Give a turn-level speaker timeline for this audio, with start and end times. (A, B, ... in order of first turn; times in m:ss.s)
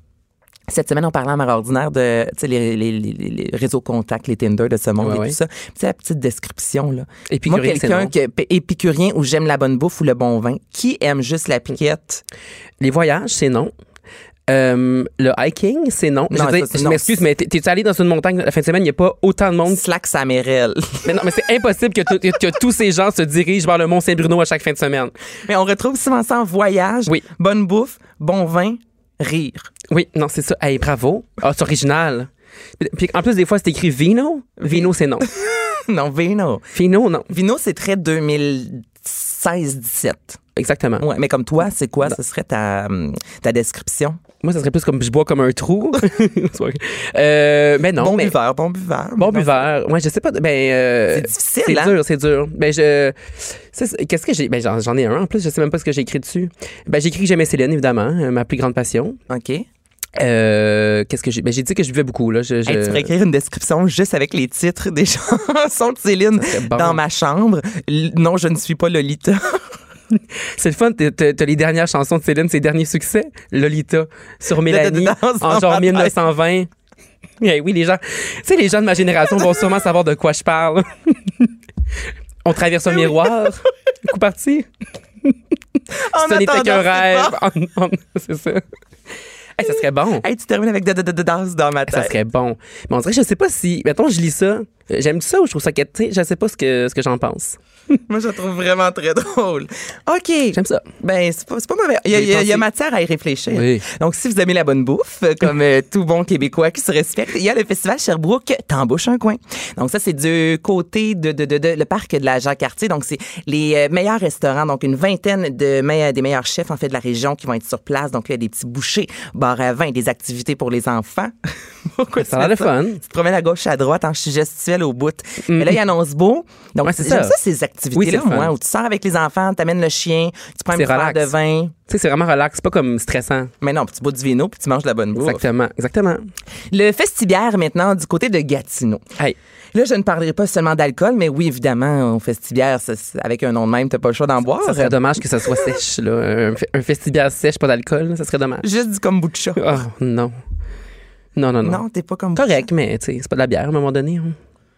0:00.7-0:12.2 A
0:05.0-0:05.4 B
0:07.3-0:08.1 B
0:12.8-0:13.7 B
0:14.5-0:19.8 B
0:16.3-0:17.2 A
0:19.7-0:21.1 A
0:21.0-0:25.1 B
0:25.5-0:29.6 A
0:29.9-0:35.3 B
0:34.6-0:36.7 A
0:36.7-0:37.3 B
0:37.3-0:40.4 A
0:40.6-0:41.0 B
0:41.0-0:44.2 A
0:44.4-0:48.3 B
0:48.0-0:49.6 A
0:49.2-0:59.2 B
0:51.1-0:52.0 A
0:59.3-0:59.6 A
1:00.2-1:03.1 B
1:02.6-1:09.7 A
1:06.4-1:07.0 B
1:10.5-1:16.7 B
1:14.6-1:16.1 A
1:17.4-1:21.4 B
1:22.4-1:24.7 B
1:23.0-1:23.3 A
1:25.9-1:27.4 A
1:26.1-1:28.6 B
1:29.6-1:30.2 B
1:29.6-1:32.1 A
1:31.9-1:37.6 B
1:38.1-2:11.7 A
1:40.5-1:40.8 B
1:42.1-1:42.6 B
1:43.5-1:43.8 B
2:02.2-2:03.0 B
2:05.5-2:05.8 B
2:06.8-2:07.4 B
2:07.9-2:08.5 B
2:10.7-2:11.3 B
2:11.9-2:13.5 B
2:13.6-2:15.4 A
2:15.1-2:16.3 B
2:16.7-2:19.0 A
2:19.7-2:25.0 A
2:24.6-2:28.6 B
2:28.6-2:29.8 A
2:29.6-2:30.4 B
2:31.4-2:31.8 B
2:31.6-2:32.7 A
2:32.3-2:34.4 B